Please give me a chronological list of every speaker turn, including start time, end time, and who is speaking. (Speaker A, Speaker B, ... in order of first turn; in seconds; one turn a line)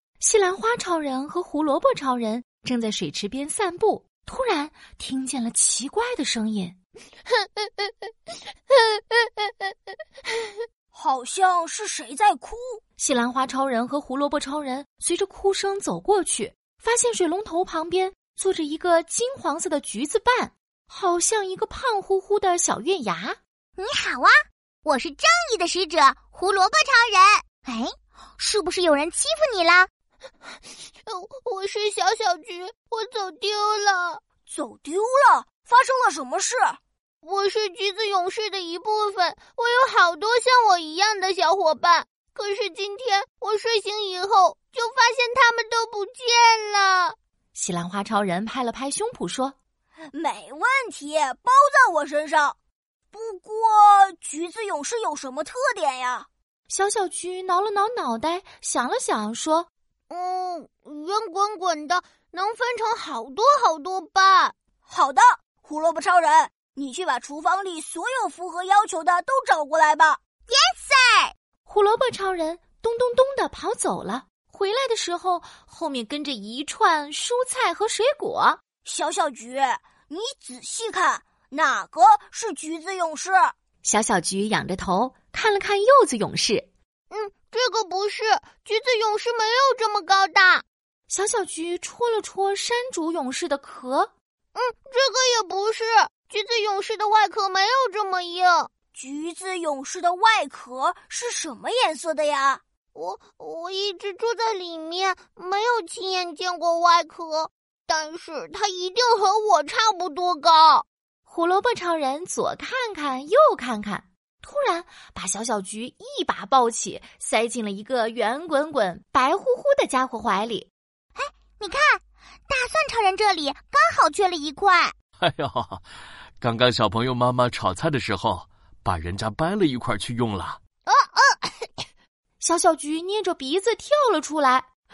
Speaker A: 0.2-6.8
Speaker B: 8.7-9.7
Speaker C: 10.9-12.8
Speaker A: 13.0-23.4
Speaker D: 23.8-29.9
Speaker B: 31.1-34.2
Speaker C: 34.5-36.8
Speaker B: 37.2-47.1
Speaker A: 47.5-49.5
Speaker C: 50.1-52.5
Speaker C: 53.1-56.3
Speaker A: 56.7-59.7
Speaker B: 60.1-64.5
Speaker C: 64.8-70.2
Speaker D: 70.5-71.3
Speaker A: 71.7-78.6
Speaker C: 78.8-83.5
Speaker A: 83.8-86.7
Speaker B: 87.1-90.6
Speaker A: 91.1-94.1
Speaker B: 94.5-98.7
Speaker C: 98.9-102.6
Speaker B: 102.9-110.8
Speaker A: 111.2-120.7
Speaker D: 121.2-124.9
Speaker E: 125.2-125.8
Speaker E: 126.4-130.6
Speaker B: 130.9-131.7
Speaker A: 132.4-134.7